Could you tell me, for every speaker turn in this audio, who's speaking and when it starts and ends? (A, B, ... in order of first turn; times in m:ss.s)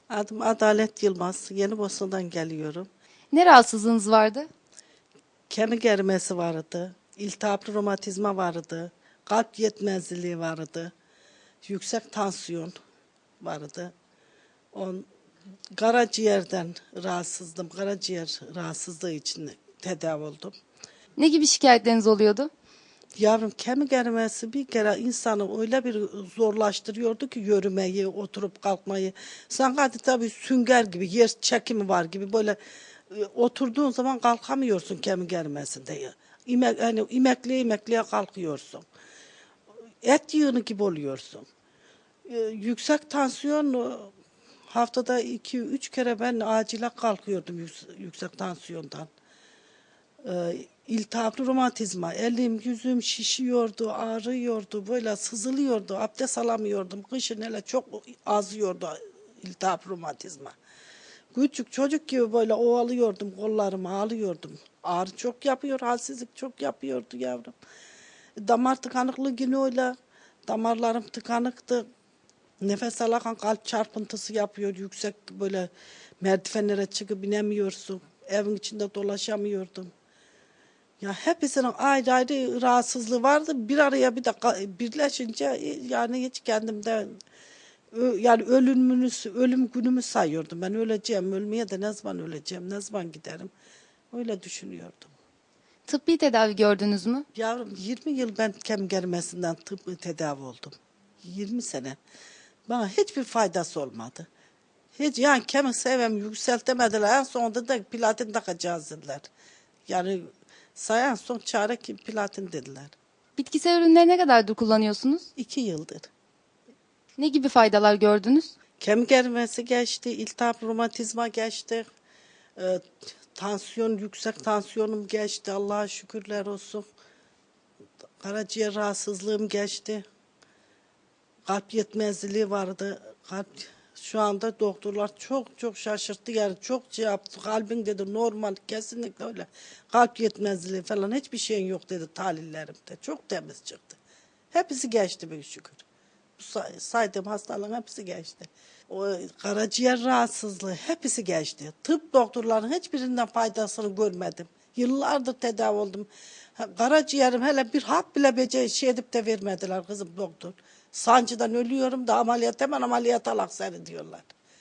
0:00.1-0:02.9 A
0:03.3-0:04.5 B
0:05.5-0:10.9 A
0:11.6-0:12.8 A
0:13.4-0:13.9 A
0:14.7-0:15.1 A
0:15.8-0:20.6 A
0:21.2-0:22.5 B
0:23.2-0:32.6 A
0:33.1-0:38.8 A
0:40.0-0:41.5 A
0:42.3-0:44.1 A
0:44.7-0:49.1 A
0:50.2-1:00.6 A
1:01.3-1:07.5 A
1:08.4-1:10.0 A
1:10.5-1:11.8 A
1:12.6-1:15.7 A
1:16.2-1:19.9 A
1:21.0-1:27.2 A
1:27.9-1:33.5 A
1:34.1-1:35.1 A
1:35.9-1:37.3 B
1:37.4-1:42.0 A
1:42.7-1:44.3 A
1:45.0-1:49.3 A
1:49.9-1:53.0 A
1:53.4-1:55.3 B
1:55.4-1:56.1 A
1:57.2-1:58.5 B
1:58.8-2:01.9 A
2:02.6-2:06.9 A
2:08.2-2:10.1 A
2:11.5-2:24.0 A
2:24.5-2:25.8 A
2:26.4-2:44.3 A